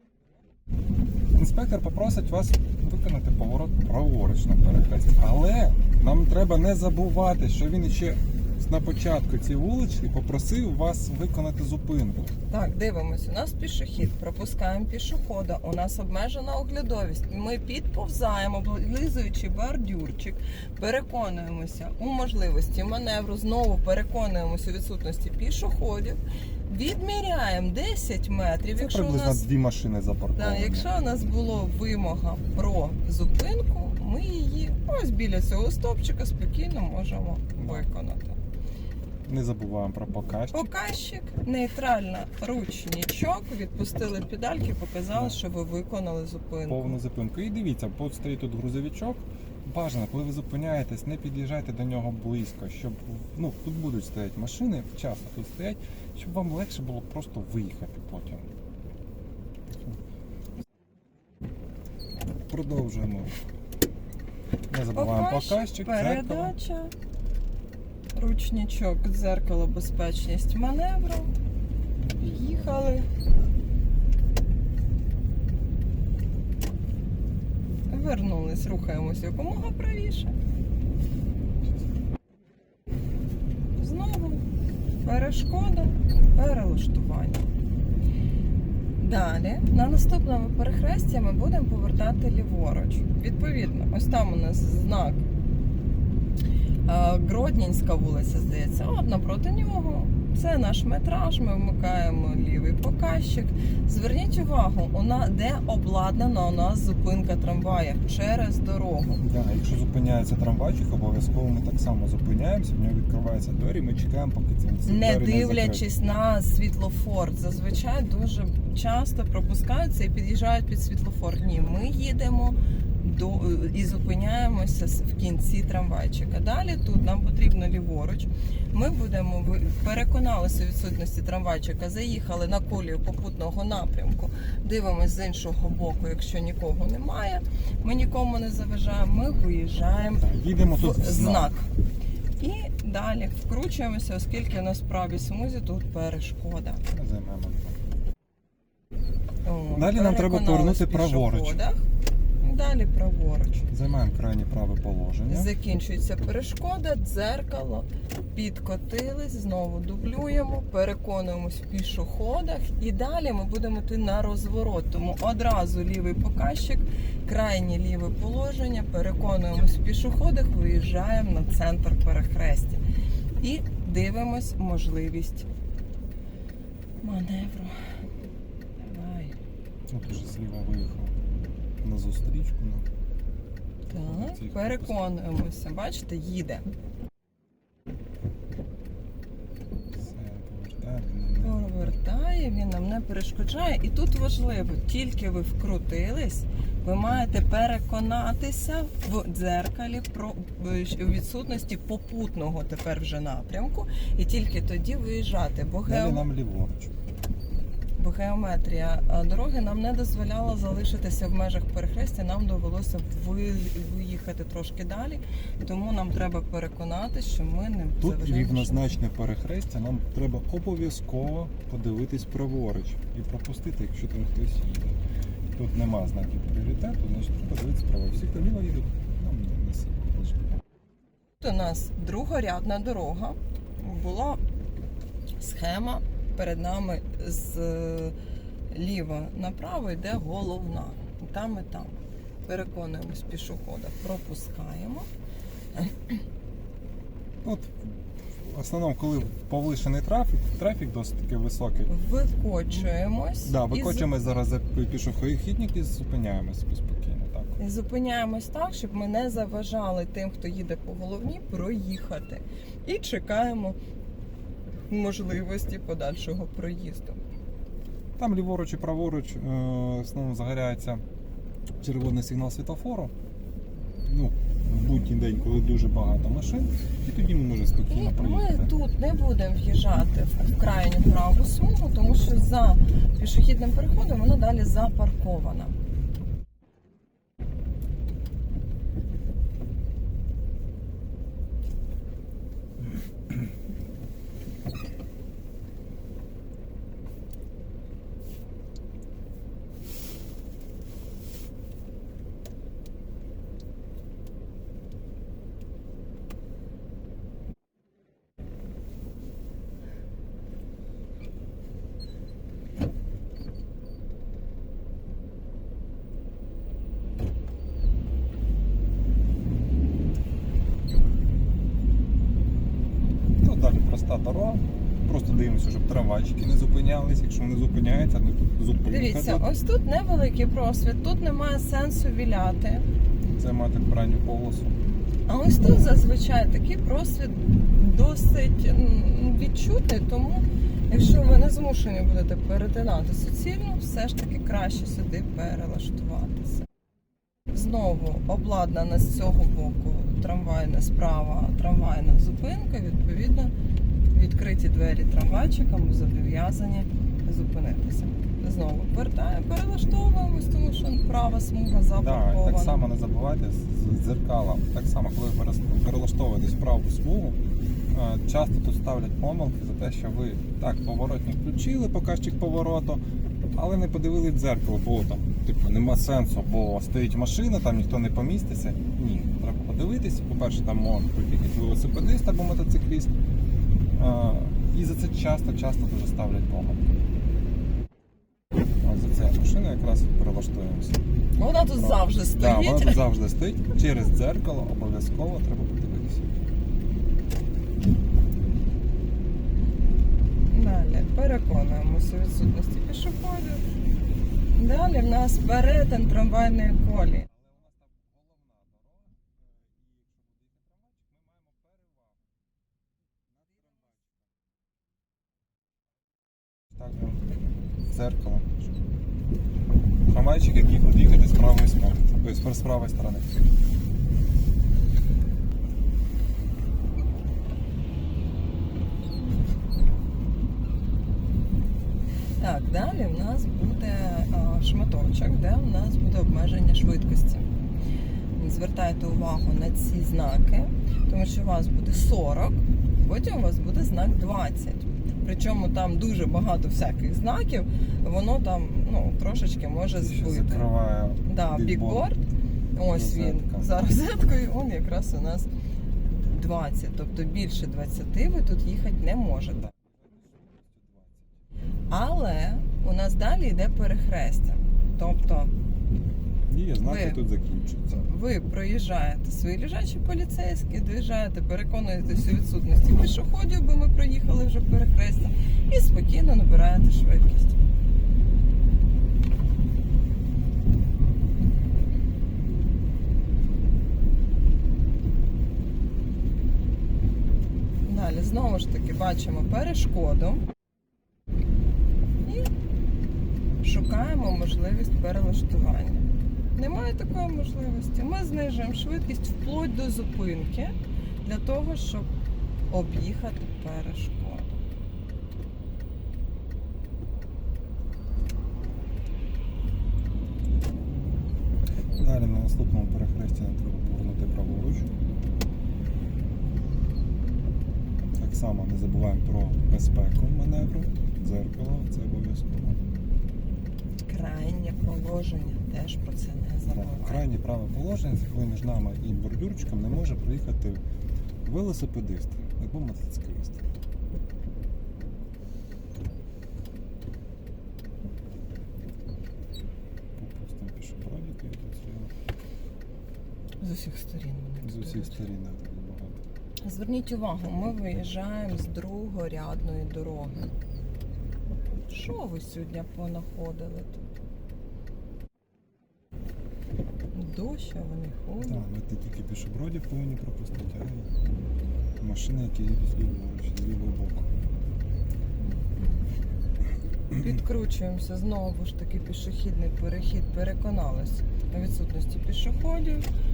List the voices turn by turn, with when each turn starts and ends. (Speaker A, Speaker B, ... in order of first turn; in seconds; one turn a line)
Speaker A: 1.3-12.3
Speaker B: 12.5-29.4
Speaker A: 28.8-30.9
Speaker B: 30.4-38.4
Speaker A: 37.6-37.9
Speaker A: 39.2-40.7
Speaker B: 40.5-47.0
Speaker A: 46.7-58.5
Speaker A: 59.7-60.0
Speaker A: 62.5-63.4
Speaker A: 64.7-66.5
Speaker B: 64.9-66.9
Speaker B: 68.2-71.3
Speaker A: 72.0-72.9
Speaker B: 72.3-73.1
Speaker B: 77.9-80.3
Speaker B: 83.8-84.4
Speaker B: 85.0-87.4
Speaker B: 89.0-95.2
Speaker B: 96.8-109.2
Speaker A: 109.2-115.8
Speaker B: 114.8-141.7
Speaker A: 140.2-141.5
Speaker B: 142.4-146.8
Speaker A: 146.9-147.8
Speaker B: 149.4-151.8
Speaker A: 149.7-151.6
Speaker B: 152.4-153.7
Speaker A: 153.7-155.5
Speaker B: 155.3-172.8
Speaker B: 173.4-175.5
Speaker B: 177.0-177.9
Speaker B: 178.8-179.3
Speaker A: 179.9-181.2
Speaker A: 181.8-182.9
Speaker B: 183.9-186.7
Speaker A: 183.9-185.0
Speaker A: 189.9-191.9
Speaker B: 191.4-206.3
Speaker A: 205.8-206.9
Speaker B: 208.0-219.0
Speaker A: 218.0-225.0
Speaker A: 225.5-230.6
Speaker B: 231.4-234.4
Speaker B: 235.4-238.2
Speaker B: 238.7-245.1
Speaker B: 245.7-246.2
Speaker A: 247.4-251.9
Speaker B: 251.9-254.1
Speaker A: 253.4-257.6
Speaker B: 257.6-263.8
Speaker B: 264.9-267.2
Speaker A: 268.2-271.0
Speaker A: 271.8-273.1
Speaker A: 274.0-278.7
Speaker B: 277.9-285.8
Speaker A: 323.3-329.4
Speaker B: 328.9-332.8
Speaker A: 333.3-334.8
Speaker B: 335.3-346.6
Speaker B: 347.5-353.5
Speaker B: 354.1-362.8
Speaker A: 361.9-367.4
Speaker A: 367.9-373.0
Speaker A: 373.5-383.1
Speaker A: 383.9-387.0
Speaker A: 388.8-391.0
Speaker B: 391.4-393.0
Speaker A: 391.8-396.5
Speaker B: 400.5-403.6
Speaker B: 404.6-407.3
Speaker A: 407.3-412.2
Speaker A: 413.3-414.2
Speaker A: 416.7-417.2
Speaker A: 417.9-418.8
Speaker A: 420.1-423.4
Speaker B: 432.4-437.5
Speaker B: 438.4-450.7
Speaker A: 449.9-452.1
Speaker B: 451.2-452.2
Speaker B: 452.7-455.5
Speaker A: 452.8-453.7
Speaker B: 456.1-459.6
Speaker A: 459.5-461.3
Speaker B: 461.9-465.5
Speaker A: 466.5-468.1
Speaker B: 466.8-467.2
Speaker B: 467.9-477.6
Speaker B: 487.8-490.4
Speaker B: 492.2-492.5
Speaker B: 493.6-502.1
Speaker B: 502.7-504.6
Speaker A: 512.0-514.9
Speaker A: 518.2-522.8
Speaker B: 524.0-527.3
Speaker A: 526.6-530.8
Speaker A: 531.4-533.6
Speaker A: 540.1-542.1
Speaker B: 543.6-545.2
Speaker A: 544.6-546.2
Speaker B: 546.6-550.5
Speaker B: 551.9-554.0
Speaker B: 557.1-558.6
Speaker A: 558.4-561.1
Speaker A: 562.0-564.3
Speaker B: 565.4-565.9
Speaker B: 567.1-573.0